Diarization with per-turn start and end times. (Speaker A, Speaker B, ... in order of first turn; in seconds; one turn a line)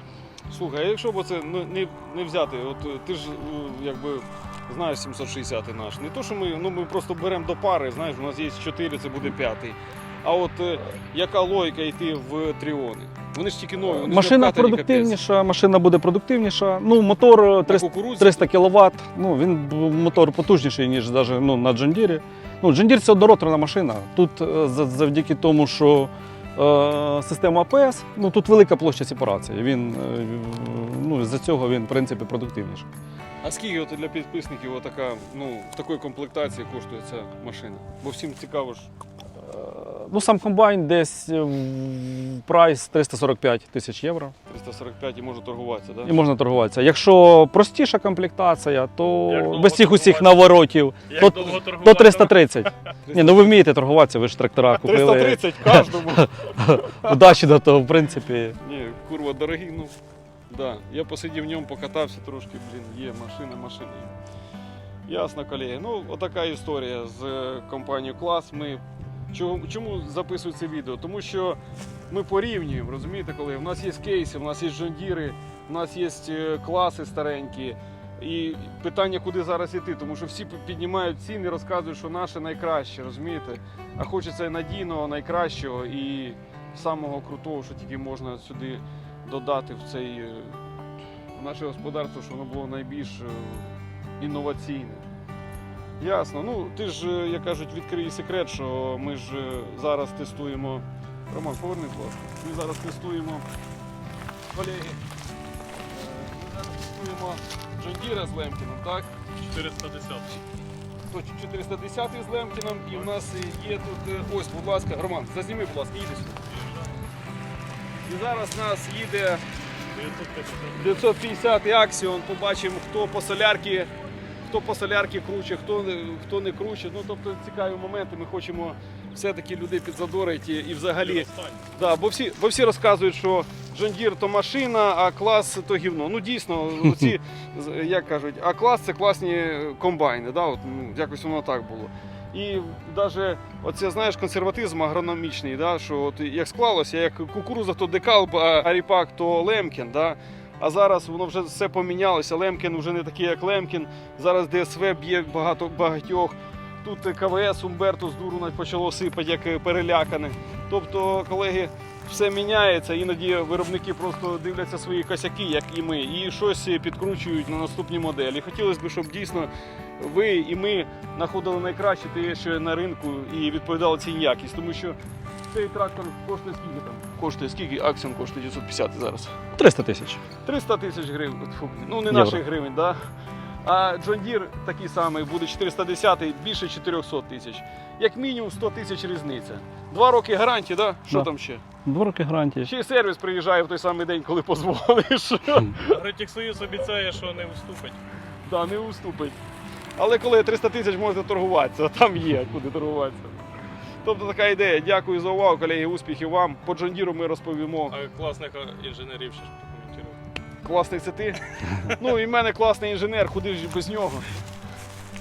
Speaker A: 0.5-15.2
Speaker B: 14.0-32.9
Speaker A: 17.6-18.5
Speaker A: 33.4-38.9
Speaker B: 39.4-44.3
Speaker A: 44.5-46.1
Speaker B: 46.0-58.6
Speaker C: 49.2-50.4
Speaker C: 51.1-52.4
Speaker A: 53.0-53.5
Speaker A: 54.7-57.1
Speaker A: 58.6-59.9
Speaker A: 60.5-64.1
Speaker A: 65.0-71.6
Speaker A: 72.1-90.6
Speaker A: 91.3-95.0
Speaker A: 96.0-103.4
Speaker A: 104.5-105.0
Speaker A: 105.9-109.1
Speaker C: 109.4-110.4
Speaker A: 111.1-116.4
Speaker A: 118.0-119.4
Speaker C: 119.9-121.1
Speaker A: 120.7-123.9
Speaker A: 124.5-175.0
Speaker C: 131.0-131.6
Speaker A: 175.5-179.3
Speaker B: 179.5-180.2
Speaker A: 180.4-183.0
Speaker B: 182.1-182.4
Speaker A: 183.6-191.6
Speaker B: 191.8-192.7
Speaker A: 192.6-196.0
Speaker C: 195.8-198.0
Speaker A: 198.4-199.4
Speaker A: 199.9-203.3
Speaker A: 204.0-207.9
Speaker C: 207.9-210.2
Speaker A: 210.6-214.3